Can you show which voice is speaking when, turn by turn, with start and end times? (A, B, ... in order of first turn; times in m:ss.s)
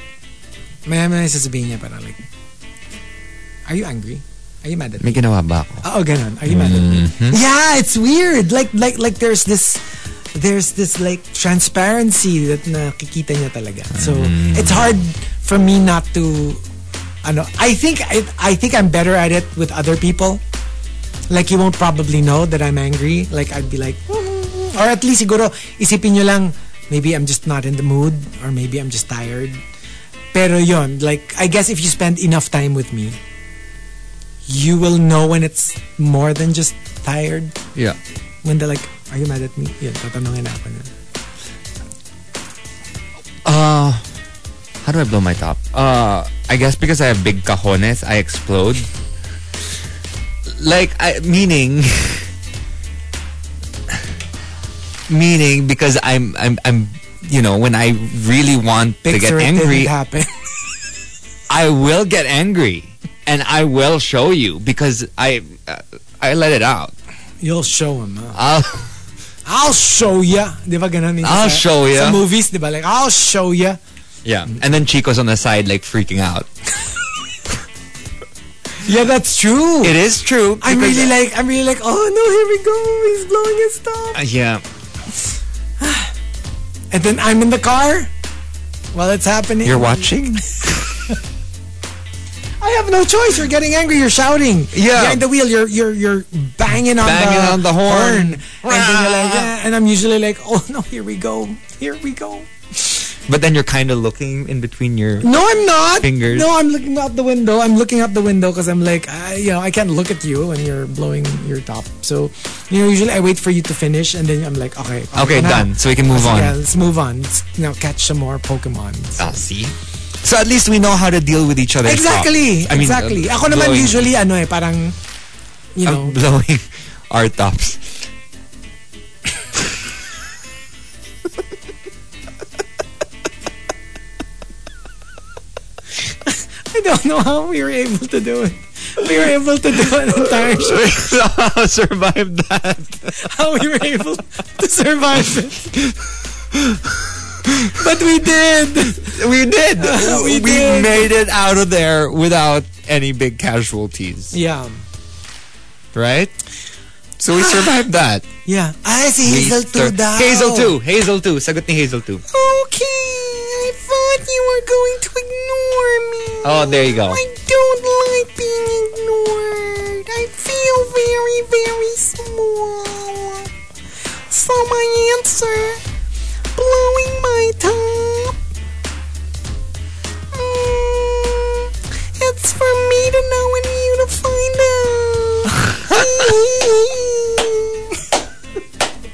0:00.8-0:02.2 A
0:03.7-0:05.2 A
0:05.0-0:05.8 B
0:05.8-0:16.6 A
0:06.4-0:07.4 B
0:13.9-0:15.0 B
0:17.2-0:20.4 A
0:21.3-0:29.6 A
0:30.3-0:33.2 A
0:34.5-0:37.6 A
0:38.4-0:40.9 A
0:43.4-0:44.0 B
0:44.8-0:48.9 B
0:50.5-0:52.3 B
0:55.1-0:59.9 B
0:59.0-1:00.3 A
1:01.5-1:06.9 B
1:07.4-1:08.4 A
1:08.3-1:08.9 B
1:09.4-1:13.8 A
1:11.2-1:12.2 B
1:14.2-1:16.5 B
1:18.8-1:20.0 A
1:19.8-1:21.1 B
1:20.6-1:24.2 A
1:24.1-1:24.6 B
1:25.8-1:26.1 A
1:26.9-1:28.1 A
1:28.9-1:30.6 A
1:29.6-1:31.1 B
1:32.6-1:42.9 A
1:34.7-1:35.2 B
1:36.9-1:39.5 B
1:43.3-1:45.4 B
1:45.2-1:59.3 A
1:46.0-1:46.5 B
1:55.1-1:56.6 B
1:59.2-2:04.1 B
2:01.8-2:05.0 A
2:05.7-2:06.2 A
2:05.8-2:08.0 B
2:16.3-2:20.9 A
2:20.3-2:24.0 B
2:23.2-2:25.7 A
2:26.5-2:26.8 B
2:27.7-2:29.2 A
2:28.9-2:34.3 B
2:29.8-2:31.1 A
2:34.3-2:34.8 A
2:35.9-2:36.3 B
2:37.2-2:38.3 B
2:37.4-2:37.8 A
2:38.4-2:40.7 A
2:39.2-2:42.2 B
2:42.3-2:53.5 A
2:46.4-2:47.2 B
2:54.3-2:55.8 A
2:56.6-2:58.4 A
3:00.3-3:08.0 A